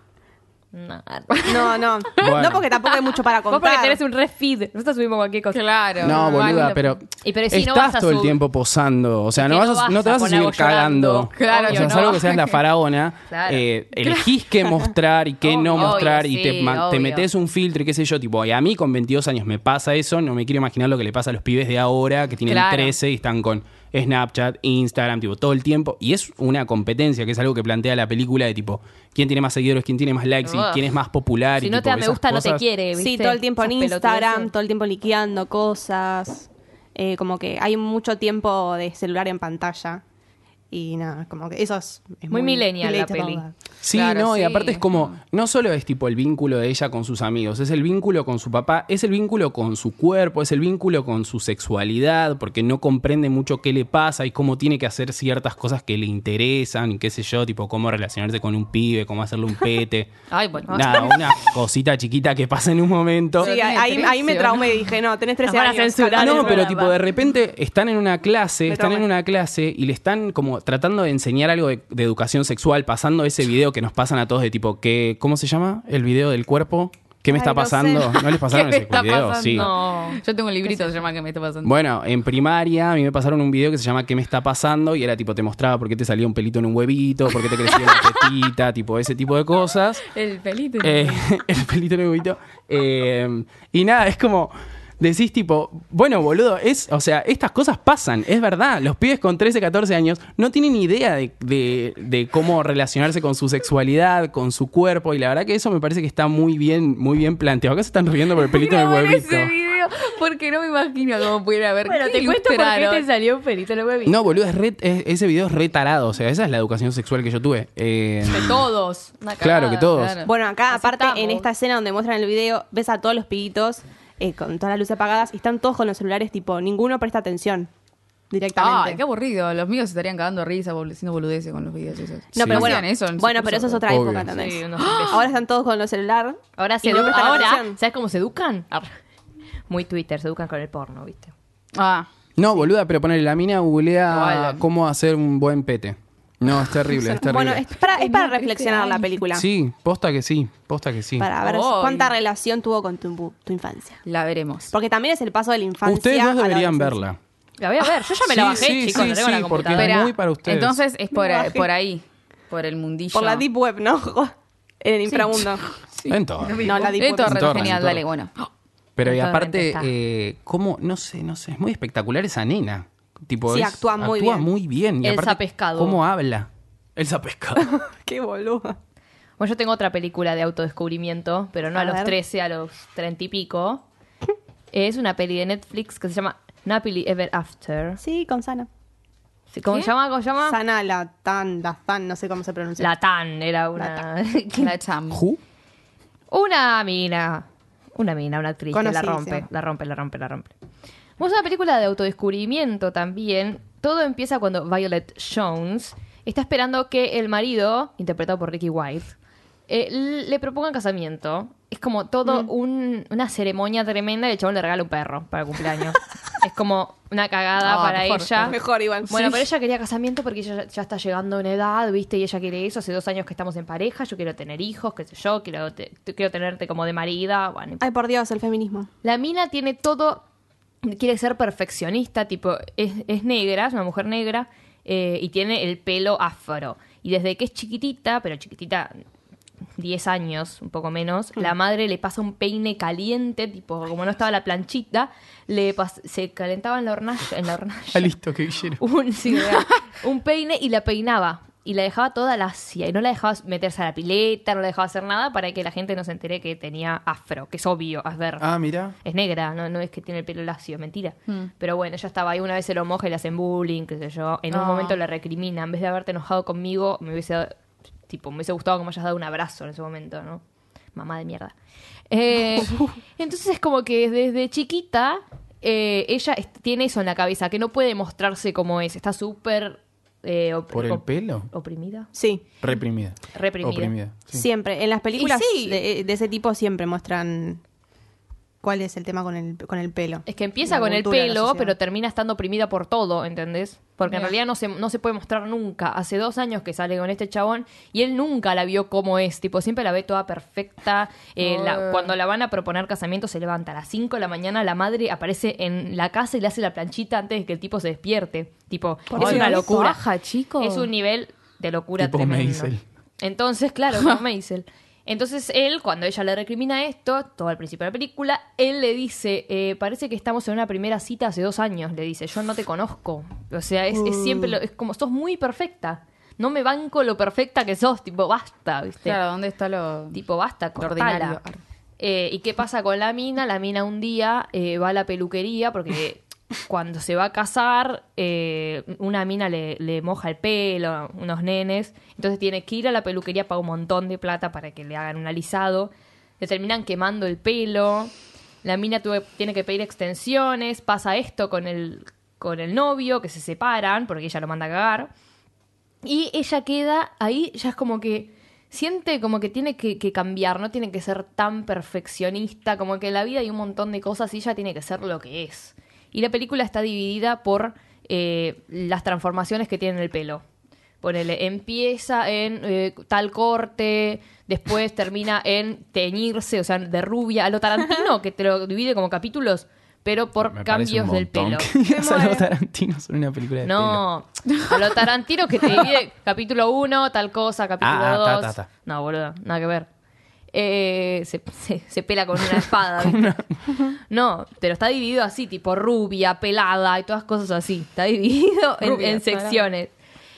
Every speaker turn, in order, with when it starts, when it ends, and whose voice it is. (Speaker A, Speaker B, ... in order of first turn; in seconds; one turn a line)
Speaker A: 0.7-1.8
Speaker B: 1.4-4.0
Speaker C: 2.2-2.6
Speaker A: 3.5-6.5
Speaker D: 5.5-7.0
Speaker C: 6.0-32.6
Speaker A: 7.2-8.4
Speaker A: 9.4-12.2
Speaker D: 11.3-12.6
Speaker A: 13.3-13.7
Speaker D: 14.0-14.3
Speaker A: 15.4-16.2
Speaker D: 15.7-17.3
Speaker D: 22.4-22.9
Speaker D: 30.4-30.8
Speaker A: 31.6-34.5
Speaker B: 32.9-40.0
Speaker B: 40.7-43.5
Speaker A: 42.3-43.4
Speaker C: 43.8-60.1
Speaker D: 43.9-44.9
Speaker A: 60.3-61.3
Speaker C: 60.7-63.5
Speaker D: 63.4-64.9
Speaker B: 63.4-66.7
Speaker A: 65.4-67.0
Speaker C: 66.2-79.7
Speaker B: 68.7-69.0
Speaker B: 77.3-78.1
Speaker D: 78.2-81.7
Speaker A: 79.5-80.9
Speaker C: 81.6-90.1
Speaker D: 87.5-88.3
Speaker D: 90.1-91.3
Speaker C: 90.8-109.5
Speaker D: 108.3-113.0
Speaker A: 111.8-114.2
Speaker C: 114.0-118.7
Speaker A: 118.2-120.0
Speaker C: 119.4-120.2
Speaker D: 120.0-120.3
Speaker B: 120.2-127.7
Speaker A: 120.7-121.5
Speaker B: 128.3-129.0
Speaker D: 128.6-133.8
Speaker B: 132.3-137.8
Speaker C: 132.4-132.8
Speaker C: 133.9-134.3
Speaker A: 134.3-135.2
Speaker D: 134.8-135.2
Speaker A: 136.6-138.9
Speaker A: 139.7-141.3
Speaker D: 141.7-142.1
Speaker C: 142.3-147.6
Speaker D: 144.1-144.6
Speaker B: 146.9-149.4
Speaker D: 147.9-149.1
Speaker C: 149.3-151.3
Speaker B: 151.2-154.0
Speaker D: 151.4-152.1
Speaker D: 154.0-154.7
Speaker B: 154.7-157.0
Speaker C: 155.8-157.2
Speaker A: 157.6-159.9
Speaker C: 158.2-160.8
Speaker D: 159.7-163.4
Speaker B: 161.1-161.7
Speaker B: 163.1-165.6
Speaker D: 165.1-168.5
Speaker C: 166.1-168.0
Speaker B: 166.6-167.7
Speaker C: 169.0-177.7
Speaker A: 169.0-169.9
Speaker B: 173.5-174.5
Speaker A: 175.0-176.0
Speaker B: 177.6-178.8
Speaker A: 179.4-183.8
Speaker B: 181.7-182.1
Speaker A: 184.7-188.0
Speaker B: 188.0-188.7
Speaker A: 189.5-190.6
Speaker B: 190.4-192.9
Speaker A: 192.8-194.8
Speaker B: 193.8-194.0
Speaker D: 194.6-195.2
Speaker C: 195.1-195.4
Speaker A: 196.3-200.5
Speaker B: 198.7-199.4
Speaker A: 201.2-209.1
Speaker A: 209.7-227.8
Speaker D: 217.6-218.6
Speaker B: 218.4-219.4
Speaker B: 227.8-228.9
Speaker A: 229.0-230.2
Speaker A: 230.8-239.0
Speaker A: 239.8-248.2
Speaker C: 247.9-248.8
Speaker A: 248.8-258.4
Speaker C: 258.4-258.9
Speaker A: 259.0-267.5
Speaker D: 264.5-265.0
Speaker A: 268.1-270.4
Speaker A: 270.9-271.5
Speaker A: 272.1-282.1
Speaker C: 280.7-281.5
Speaker B: 282.1-282.4
Speaker C: 282.6-284.4
Speaker A: 283.3-283.9
Speaker B: 284.3-287.6
Speaker A: 285.1-285.8
Speaker B: 288.6-291.7
Speaker A: 290.2-310.0
Speaker D: 294.1-294.3
Speaker D: 301.4-302.1
Speaker B: 309.1-309.9
Speaker D: 309.1-310.9
Speaker A: 310.6-329.2
Speaker C: 312.0-312.8
Speaker B: 324.1-324.5
Speaker D: 329.0-330.2
Speaker A: 330.1-331.4
Speaker D: 330.8-331.6
Speaker A: 332.0-348.1
Speaker A: 348.6-355.1
Speaker A: 356.0-370.4
Speaker A: 371.0-381.7
Speaker C: 380.5-384.0
Speaker B: 381.8-382.5
Speaker A: 383.6-389.9
Speaker C: 387.8-388.7
Speaker A: 390.5-393.3
Speaker C: 393.0-393.7
Speaker A: 393.9-399.9
Speaker D: 398.8-399.6